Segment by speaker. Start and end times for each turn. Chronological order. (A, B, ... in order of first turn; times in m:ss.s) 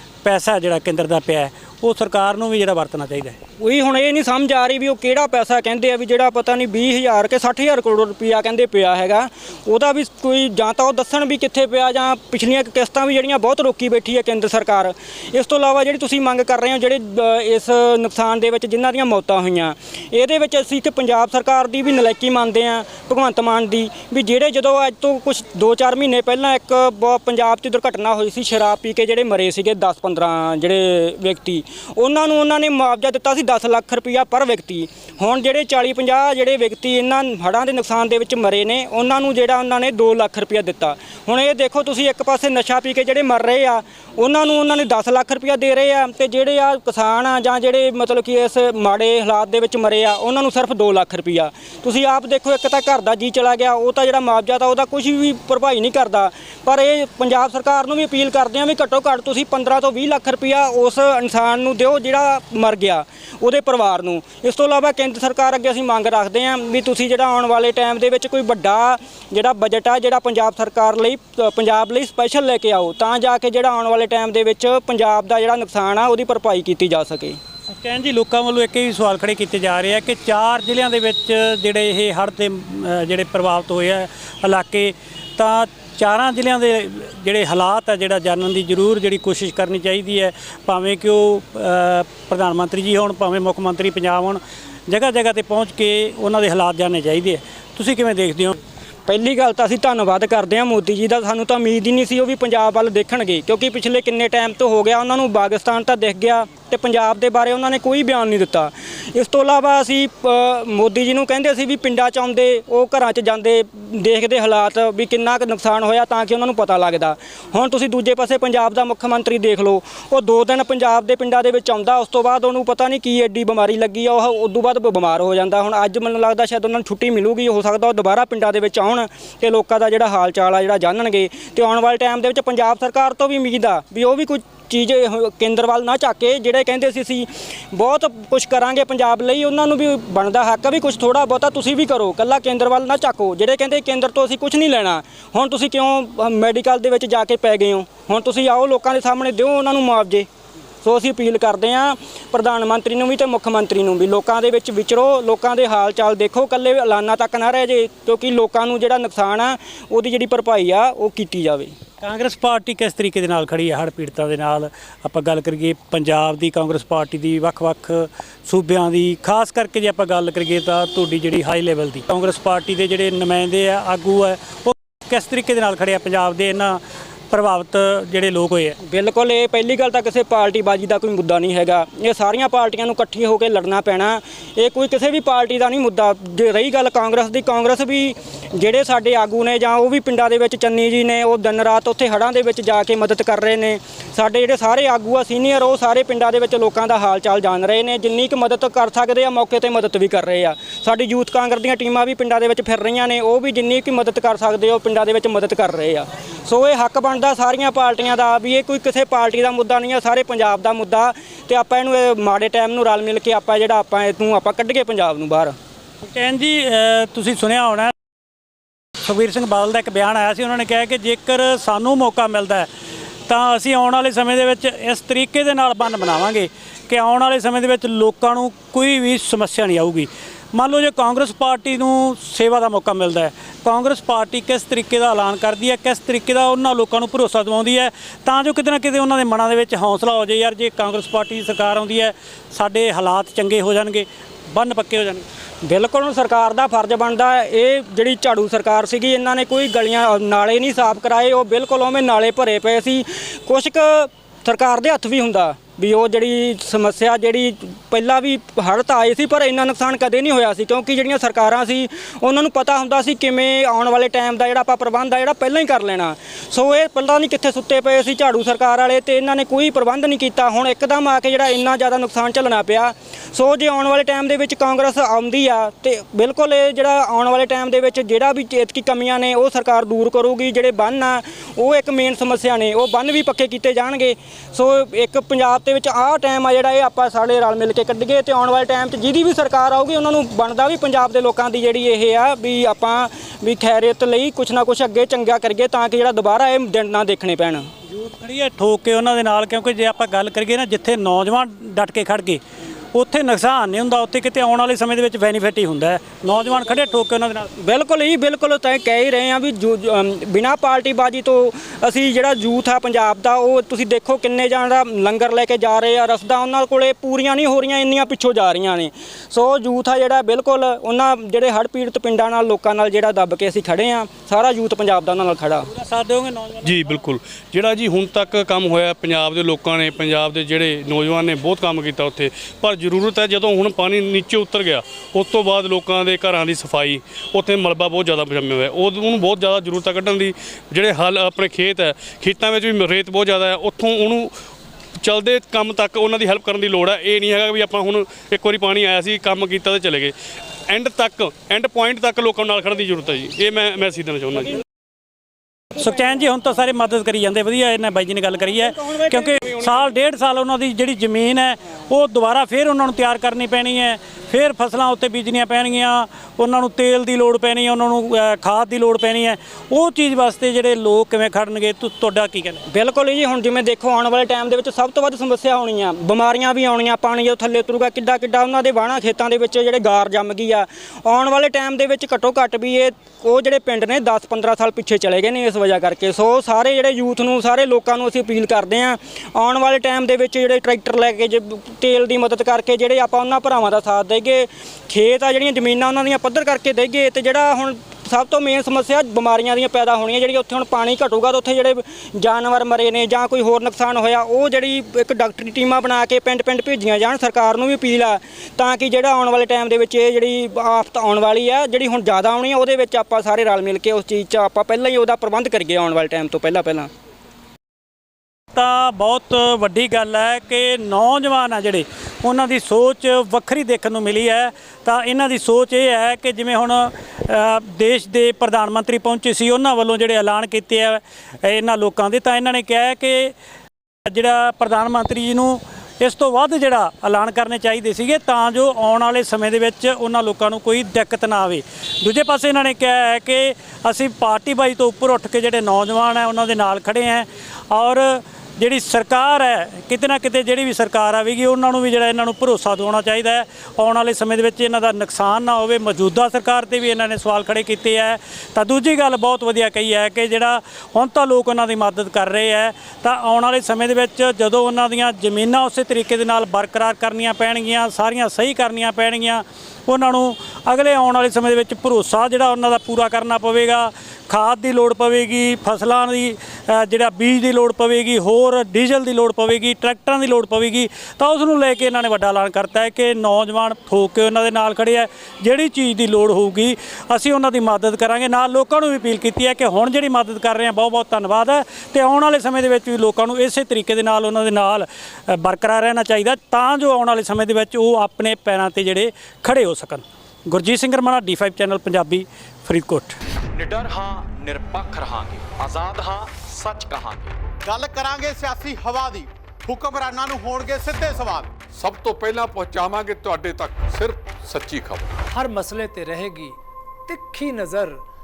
0:00.2-0:03.4 A
0:03.6-1:17.4 B
1:17.7-1:38.6 A
1:39.1-2:30.3 B
2:30.8-2:41.7 B
2:42.0-2:58.8 A
2:58.9-3:35.6 B
3:36.0-3:37.9 A
3:39.0-3:42.7 A
3:43.3-4:05.2 A
4:05.6-4:57.7 B
4:57.9-5:02.4 A
5:02.9-5:07.5 A
5:07.6-5:25.7 B
5:25.7-5:27.1 A
5:26.6-5:44.3 C
5:45.0-5:50.1 C
5:50.7-5:54.6 C
5:55.8-6:12.6 A
6:12.7-6:56.9 B
6:58.5-7:13.3 A
7:14.1-8:23.2 A
8:23.5-8:27.4 D
8:27.6-8:31.6 E
8:31.7-8:35.1 F
8:35.3-8:36.6 G
8:37.1-8:38.0 G